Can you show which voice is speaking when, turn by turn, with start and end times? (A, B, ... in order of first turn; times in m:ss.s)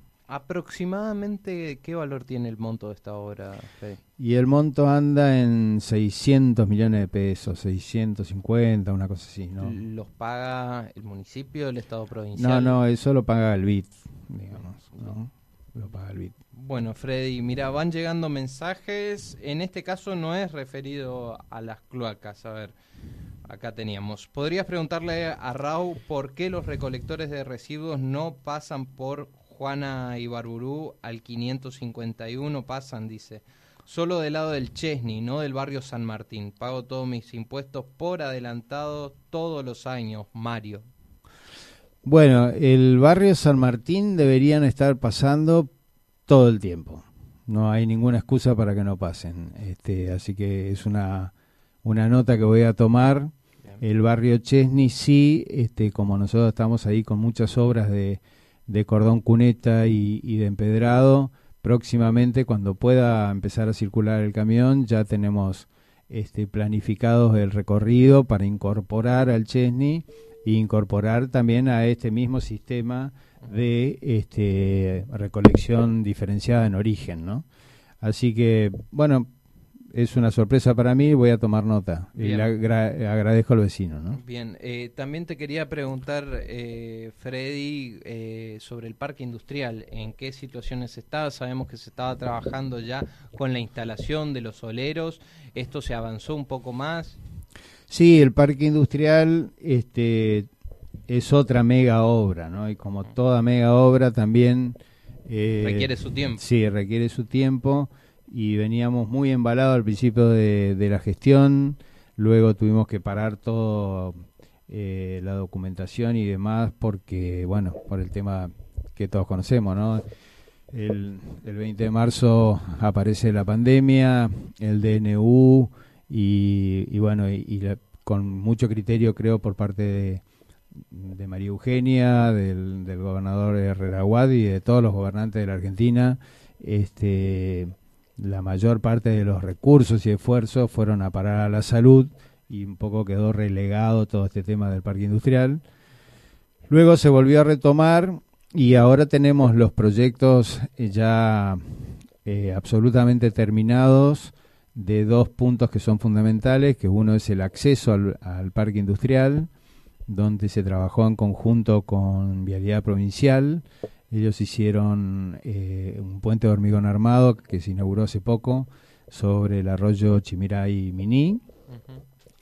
0:00.3-0:04.0 A
0:04.2-0:09.8 B
0:09.6-0:12.8 A
0:12.4-0:16.4 B
0:16.5-0:22.7 A
0:23.5-0:40.9 A
0:42.0-0:45.7 B
0:46.3-0:51.3 B
0:51.8-1:17.4 B
1:18.0-1:19.3 B
1:19.9-1:24.2 B
1:22.2-1:22.5 A
1:24.1-1:37.2 A
1:37.9-1:40.5 B
1:41.1-2:00.0 B
1:45.6-1:46.4 A
2:00.7-2:10.2 B
2:10.8-2:25.6 B
2:26.7-2:39.5 B
2:40.1-2:51.4 B
2:51.7-2:52.0 A